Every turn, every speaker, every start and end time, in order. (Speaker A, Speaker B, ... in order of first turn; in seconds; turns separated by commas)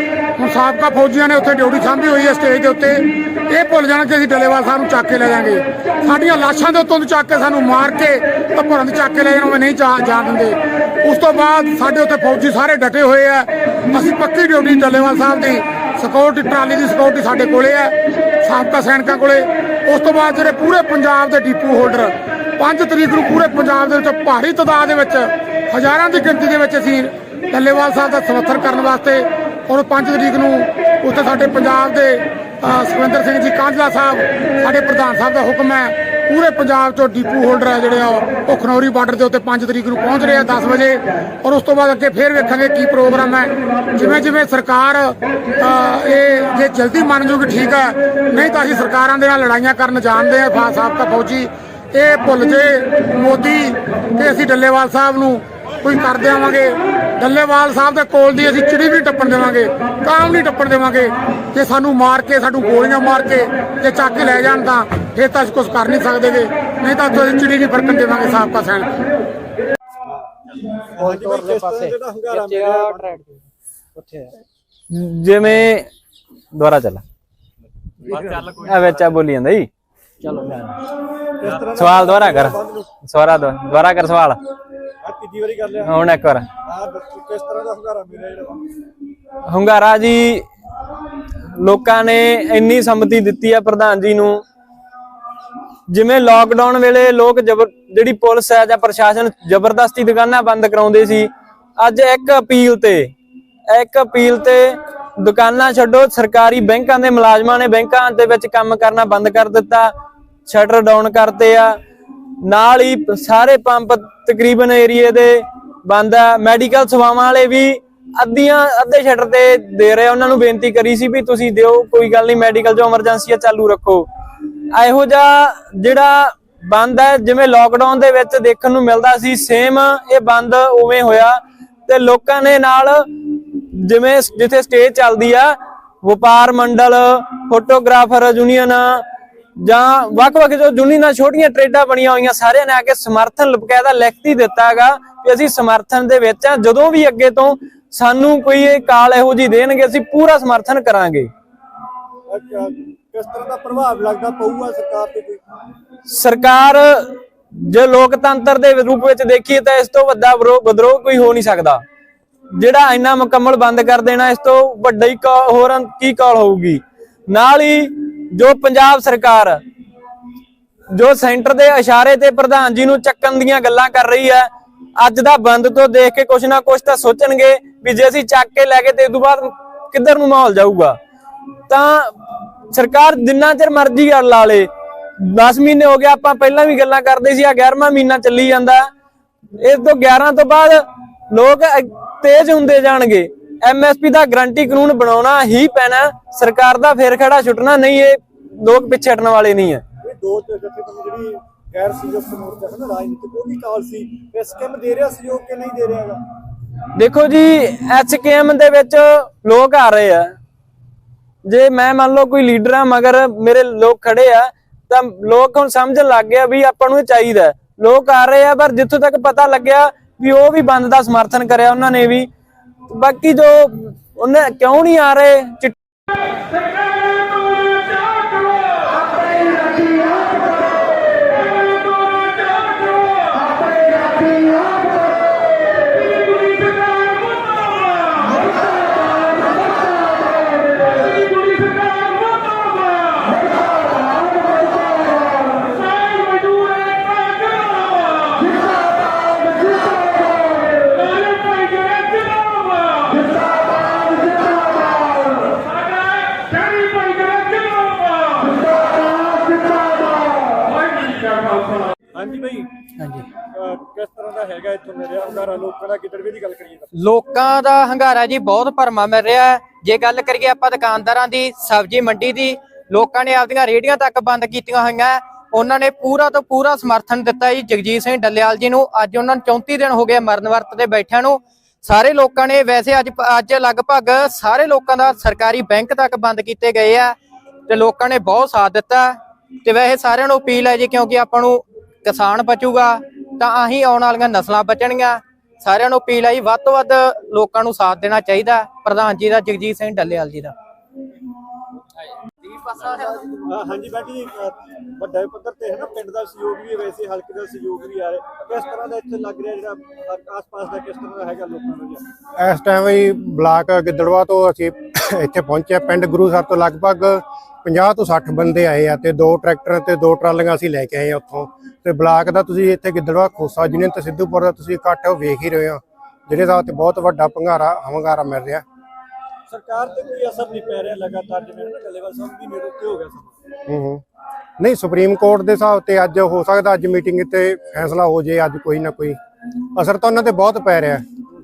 Speaker A: 0.4-68.9, Speaker B: 70.9-73.2, Speaker C: 71.1-73.3, Speaker C: 74.0-74.3, Speaker D: 74.9-75.9, Speaker D: 76.5-77.0, Speaker B: 78.1-78.8, Speaker D: 78.1-79.7, Speaker B: 81.4-82.9, Speaker D: 81.6-84.4, Speaker B: 85.0-85.9, Speaker D: 85.8-86.4, Speaker B: 86.6-88.6, Speaker D: 89.5-90.4, Speaker D: 91.6-94.4, Speaker D: 95.9-103.1, Speaker D: 103.7-109.9, Speaker D: 110.5-111.7, Speaker D: 112.4-124.0, Speaker D: 124.7-139.0, Speaker D: 139.6-151.3, Speaker B: 152.3-155.4, Speaker D: 156.1-161.8, Speaker D: 162.6-169.6, Speaker D: 170.9-180.9, Speaker D: 181.7-182.1, Speaker D: 182.7-184.7, Speaker D: 185.2-188.9, Speaker D: 189.6-199.8, Speaker B: 200.0-206.2, Speaker D: 206.9-210.3, Speaker D: 211.5-222.3, Speaker D: 222.9-225.7, Speaker B: 262.1-262.7, Speaker C: 263.0-263.2, Speaker B: 263.5-266.9, Speaker C: 267.0-287.1, Speaker C: 287.7-300.5, Speaker B: 303.3-312.0, Speaker E: 312.4-328.6, Speaker B: 329.5-333.3, Speaker E: 333.7-334.0, Speaker E: 334.6-339.2, Speaker E: 339.8-341.0